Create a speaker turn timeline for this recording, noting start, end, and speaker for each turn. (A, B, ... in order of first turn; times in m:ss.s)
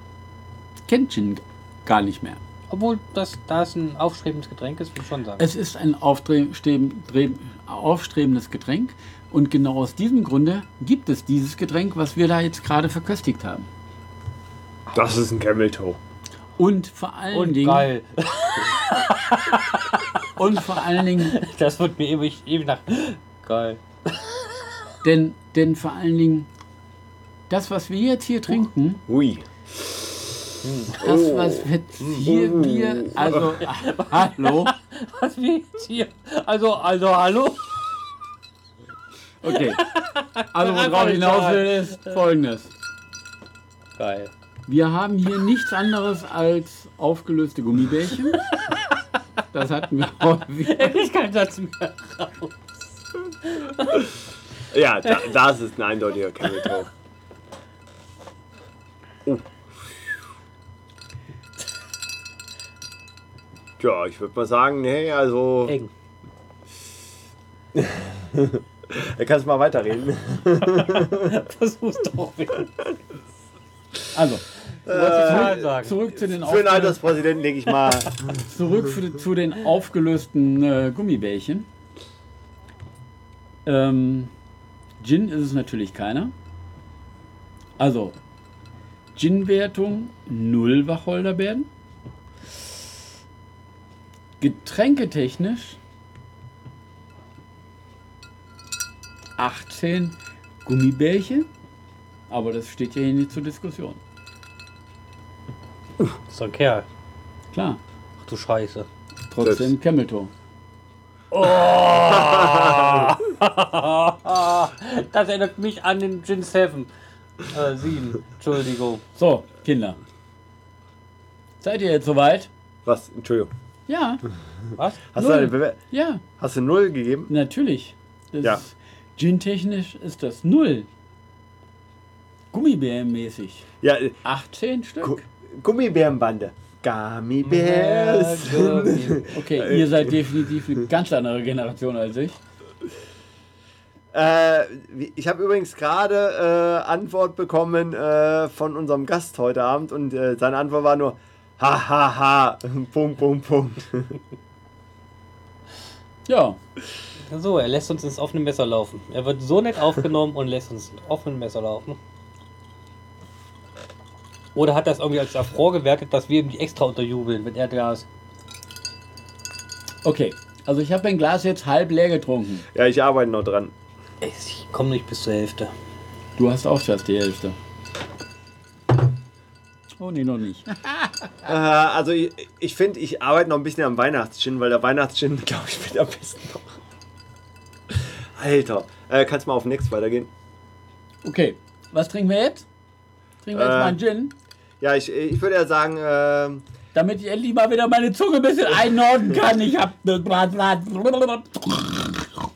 0:00.9-0:02.4 A
0:02.7-0:05.4 B
0:05.4-0:13.7 A
0:14.9-0:16.0 C
0:16.6-0:17.9 A
0:17.3-0:20.2 B
0:20.4-0:21.4 A
0:20.8-0:24.4 B
0:25.0-0:26.5 A
0:27.5-0:29.0 A
0:29.1-0:30.3 C
0:30.6-0:30.9 B
0:31.0-0:34.7 A
0:31.0-0:33.4 C
0:33.2-0:37.7 B
0:39.4-0:39.8 A
0:39.5-0:42.2 B
0:40.5-0:42.7 A
0:44.0-0:44.3 B
0:44.7-0:48.4 A
0:49.5-0:50.9 A
0:50.6-0:52.6 B
0:53.5-0:54.0 B
0:54.7-0:56.9 C
0:59.2-0:59.6 C
1:03.8-1:05.8 C
1:07.7-1:11.3 C
1:11.1-1:12.7 B
1:14.1-1:14.5 A
1:14.8-1:15.7 C
1:14.9-1:16.0 B
1:15.1-1:17.0 A
1:16.2-1:18.2 C
1:18.4-1:21.7 A
1:23.6-1:24.3 A
1:25.0-1:26.3 A
1:27.8-1:28.2 A
1:29.1-1:31.7 A
1:34.4-1:35.8 A
1:39.4-1:41.5 A
1:42.3-1:44.0 A
1:46.3-1:46.8 B
1:47.5-1:47.8 A
1:48.2-1:48.9 B
1:49.3-1:50.3 A
1:49.4-1:49.7 C
1:51.3-1:56.9 B
1:52.0-1:53.1 C
1:57.4-1:59.0 B
1:59.2-2:00.0 A
2:01.6-2:02.5 A
2:02.8-2:03.5 C
2:03.9-2:04.2 A
2:04.8-2:05.0 B
2:05.1-2:05.8 C
2:05.2-2:06.2 A
2:06.4-2:07.3 C
2:07.3-2:10.9 A
2:12.5-2:13.7 A
2:13.8-2:14.2 C
2:14.2-2:15.2 A
2:15.0-2:20.1 C
2:17.4-2:19.3 B
2:19.3-2:22.4 A
2:24.1-2:34.2 C
2:36.3-2:36.6 A
2:37.3-2:42.0 B
2:44.5-2:48.0 B
2:50.0-2:52.6 A
2:52.7-2:53.7 C
2:54.2-2:55.7 B
2:56.4-2:57.6 A
3:00.0-3:01.3 A
3:01.4-3:06.8 C
3:07.9-3:10.3 C
3:11.2-3:12.6 A
3:13.4-3:14.3 A
3:13.5-3:14.0 C
3:14.8-3:16.6 C
3:16.9-3:22.3 A